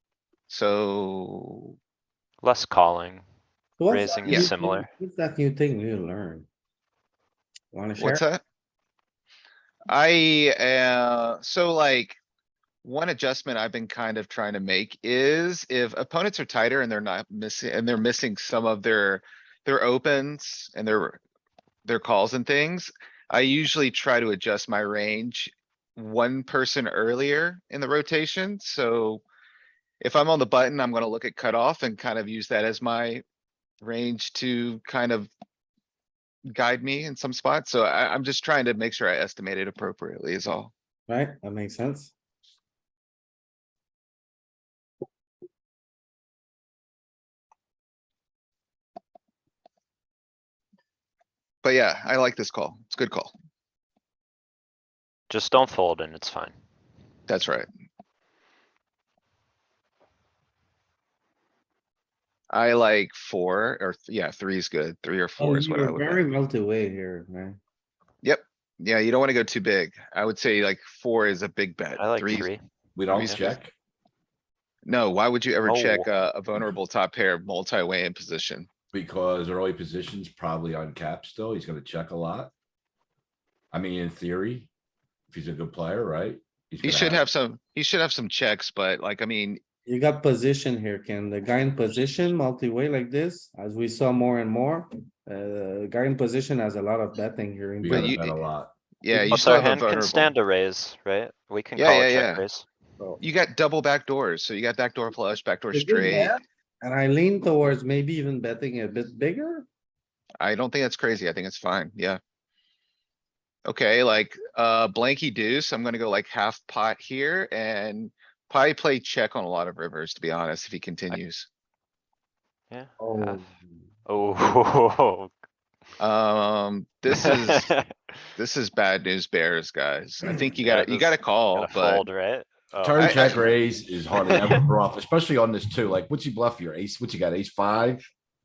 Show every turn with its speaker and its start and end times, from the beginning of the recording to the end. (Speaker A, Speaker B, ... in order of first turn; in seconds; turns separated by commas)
Speaker A: 0.5-1.7, Speaker B: 2.4-3.2, Speaker C: 3.8-6.5, Speaker B: 3.9-4.9, Speaker A: 4.2-4.5, Speaker C: 7.7-8.2, Speaker A: 8.0-8.4, Speaker A: 9.9-12.2, Speaker A: 12.8-21.2, Speaker A: 21.8-29.2, Speaker A: 30.0-33.2, Speaker A: 33.8-35.3, Speaker A: 36.5-40.7, Speaker C: 41.1-42.1, Speaker A: 51.6-53.3, Speaker B: 55.3-56.5, Speaker A: 57.3-57.7, Speaker A: 62.5-66.2, Speaker C: 65.4-67.6, Speaker A: 68.2-72.5, Speaker B: 72.0-72.6, Speaker D: 73.0-73.7, Speaker A: 73.1-73.6, Speaker B: 73.1-73.4, Speaker A: 74.8-78.7, Speaker B: 75.6-76.1, Speaker D: 78.9-82.5, Speaker D: 83.7-84.7, Speaker D: 85.3-87.2, Speaker A: 86.8-89.6, Speaker C: 89.8-98.2, Speaker D: 97.8-98.7, Speaker A: 97.9-98.3, Speaker A: 99.0-100.3, Speaker C: 99.1-99.5, Speaker B: 99.3-102.7, Speaker A: 101.8-102.4, Speaker A: 103.2-106.3, Speaker C: 105.7-109.7, Speaker A: 110.4-112.2, Speaker A: 113.7-121.5, Speaker B: 122.7-123.5, Speaker C: 123.0-123.8, Speaker B: 124.1-125.3, Speaker A: 126.0-127.7, Speaker B: 127.1-128.2, Speaker A: 128.4-132.1, Speaker B: 130.5-133.5, Speaker D: 132.8-138.0, Speaker A: 133.0-133.4